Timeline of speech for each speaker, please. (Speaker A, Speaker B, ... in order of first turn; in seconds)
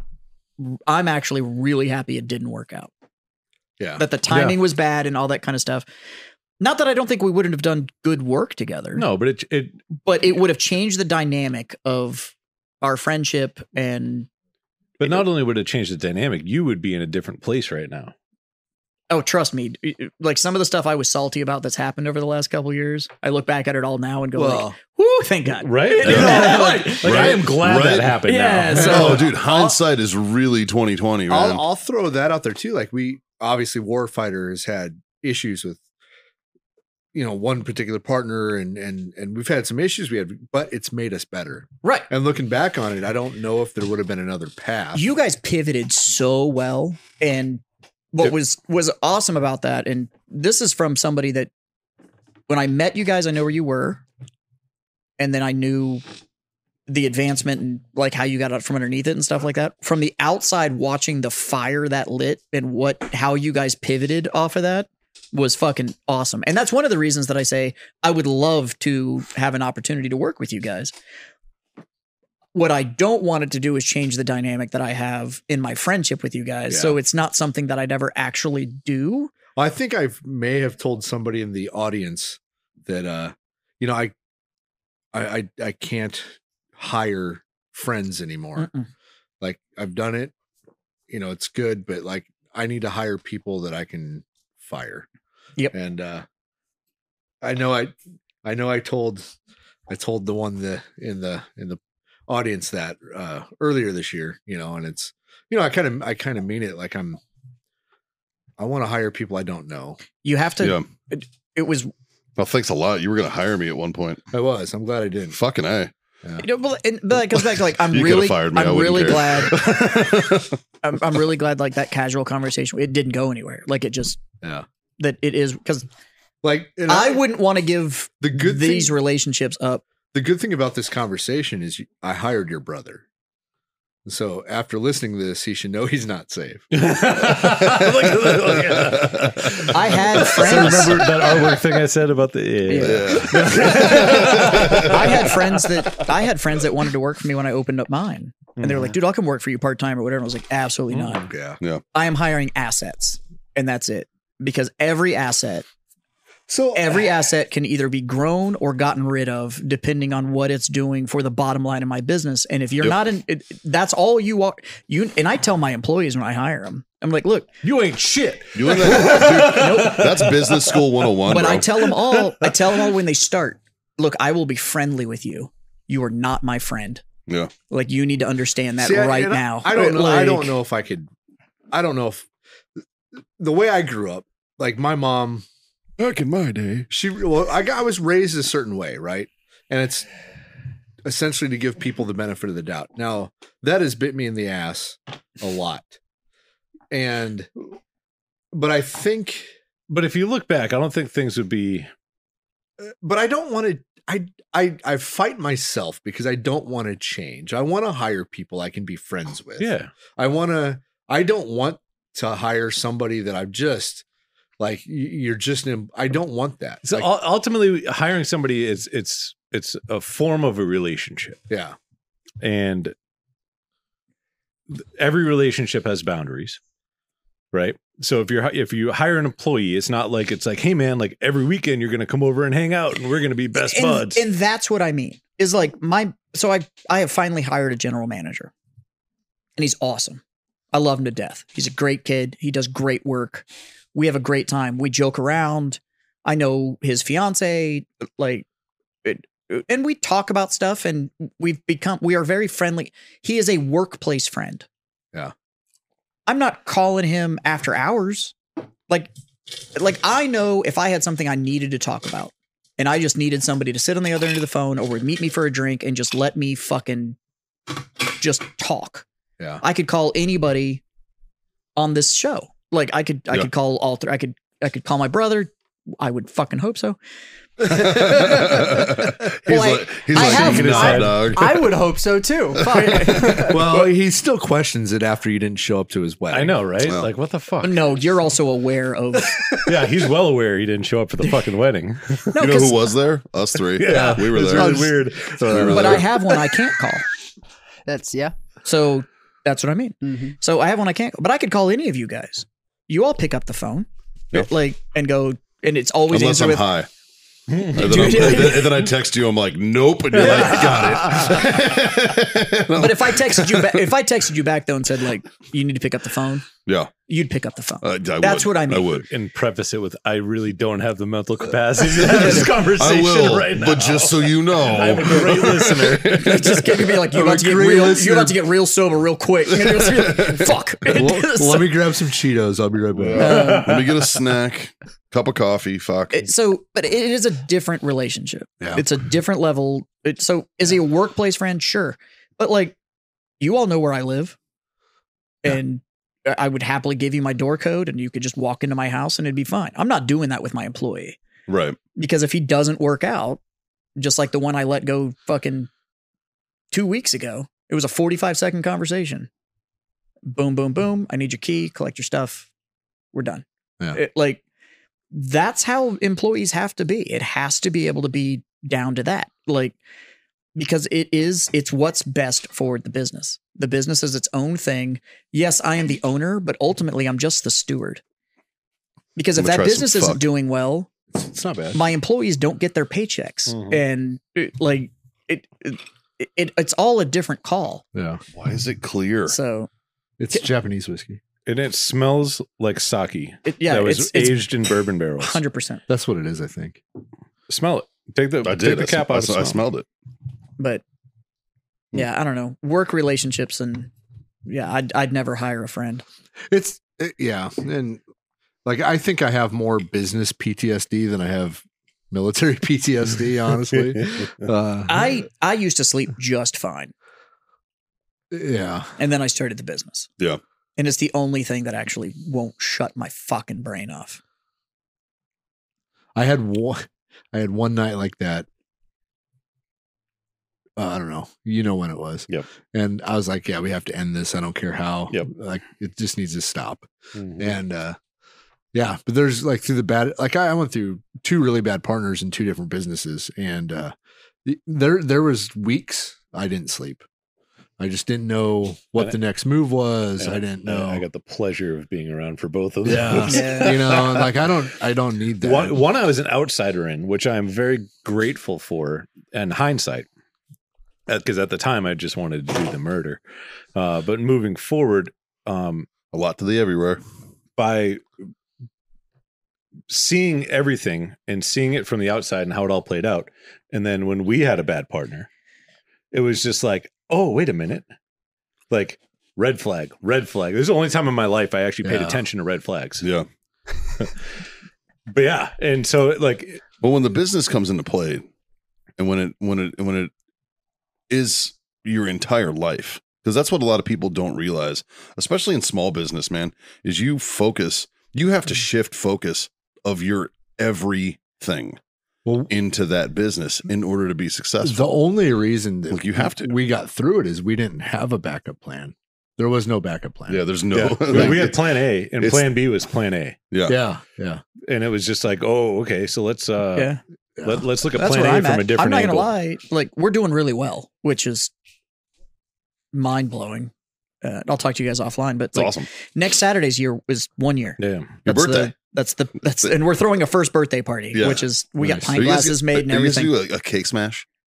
Speaker A: 0.6-2.9, 4.0-5.9, 6.6-9.1, 10.0-14.3, 19.1-27.4, 28.3-29.7, 41.8-42.1, 45.0-47.6, 48.1-51.5, 52.5-54.0, 55.2-56.0, 56.9-70.9, 72.5-79.3, 88.6-88.9, 110.2-111.9, 116.4-119.8, 120.8-124.2, 125.0-125.9, 126.9-129.8, 139.7-141.1, 142.7-151.3, 151.9-155.7, 156.7-167.5, 169.0-170.1, 171.3-177.0, 177.7-180.5, 233.6-238.5, 239.6-240.2, 240.7-248.5, 249.0-254.7, 256.3-258.4, 258.9-267.2, 268.1-269.1, 269.6-270.8, 271.8-277.0, 278.2-278.7, 279.5-281.1, 282.6-283.9, 287.6-289.4, 292.3-292.8, 295.7-297.1, 298.6-306.7, 307.8-308.9, 312.8-316.5, 317.1-319.0, 322.1-322.4, 326.1-331.7, 333.3-333.7, 336.1-342.8, 343.4-344.4, 345.4-351.2, 352.0-353.4, 354.0-355.7, 356.7-359.3, 360.3-362.5, 363.1-364.4, 365.1-369.8, 370.6-378.0, 379.2-380.9, 381.7-387.8, 389.3-389.7, 393.5-394.5, 395.2-395.8, 401.9-403.9, 404.5-406.0, 414.9-416.9, 419.0-420.1, 420.8-424.2, 453.2-453.8, 518.0-521.5, 522.9-523.7, 524.2-533.3
Speaker B: 3.8-4.1, 24.4-24.8, 28.8-29.5, 31.3-35.8, 37.1-45.0, 76.7-77.0, 79.6-84.1, 85.1-88.7, 89.4-90.3, 91.1-95.1, 95.7-96.2, 97.4-99.3, 99.9-107.2, 108.6-110.0, 114.3-115.4, 126.4-127.2, 128.2-128.9, 130.1-133.1, 134.1-136.7, 151.2-151.6, 156.5-157.1, 178.8-181.1, 181.7-182.3, 183.4-185.5, 186.9-190.1, 191.1-196.0, 196.9-197.5, 198.5-199.5, 202.8-214.1, 214.6-217.1, 221.5-221.8, 283.4-286.6, 293.9-296.2, 327.1-328.4, 330.9-333.6, 381.1-381.8, 387.9-388.2, 390.2-391.2, 395.9-396.8, 406.5-408.0, 408.6-415.1, 418.3-418.9, 426.1-428.5, 430.8-436.9, 437.4-438.0, 438.7-443.9, 444.4-447.0, 447.8-451.1, 452.8-455.8, 481.8-482.2, 502.2-502.5, 504.6-510.4, 511.1-511.4, 513.7-514.4, 517.4-517.6, 531.8-532.1
Speaker C: 9.0-9.8, 15.0-18.1, 25.6-29.2, 136.7-145.9, 148.6-148.9, 167.6-170.8, 172.0-172.5, 199.9-201.9, 209.6-209.9, 216.8-221.4, 222.4-222.9, 224.7-226.6, 227.5-234.2, 280.2-281.4, 286.3-287.9, 289.5-292.3, 293.8-295.9, 307.5-308.6, 310.3-310.8, 319.1-326.3, 333.0-333.9, 383.5-383.8, 391.5-395.4, 397.5-399.6, 437.1-437.5, 450.2-454.3, 455.4-460.1, 461.1-463.2, 463.8-465.9, 467.6-468.0, 469.9-475.3, 476.1-477.9, 478.7-483.1, 485.1-486.6, 510.7-513.4, 514.6-516.9, 517.4-519.3, 527.8-528.2
Speaker D: 26.0-28.2, 28.8-31.6, 110.6-110.9, 112.4-114.2, 115.3-115.9, 117.4-120.6, 137.7-139.7, 142.8-145.3, 168.6-171.7, 186.0-186.9, 277.6-281.7, 282.7-283.5, 286.8-287.1, 292.4-294.9, 295.5-296.1, 306.1-306.9, 307.7-313.9, 316.7-316.9, 317.8-319.1, 322.0-326.9, 329.7-330.5, 333.1-336.3, 351.5-351.8, 379.4-380.2, 388.3-389.4, 398.4-399.9, 466.1-467.0, 483.0-483.3, 486.8-488.3, 489.0-490.1, 491.1-501.8, 502.5-504.8, 505.9-506.5, 510.3-511.6, 512.2-512.5, 513.5-513.8, 525.5-525.9, 528.2-528.7, 531.1-531.4, 532.1-534.2
Speaker E: 281.1-283.5, 297.9-298.3, 300.0-300.4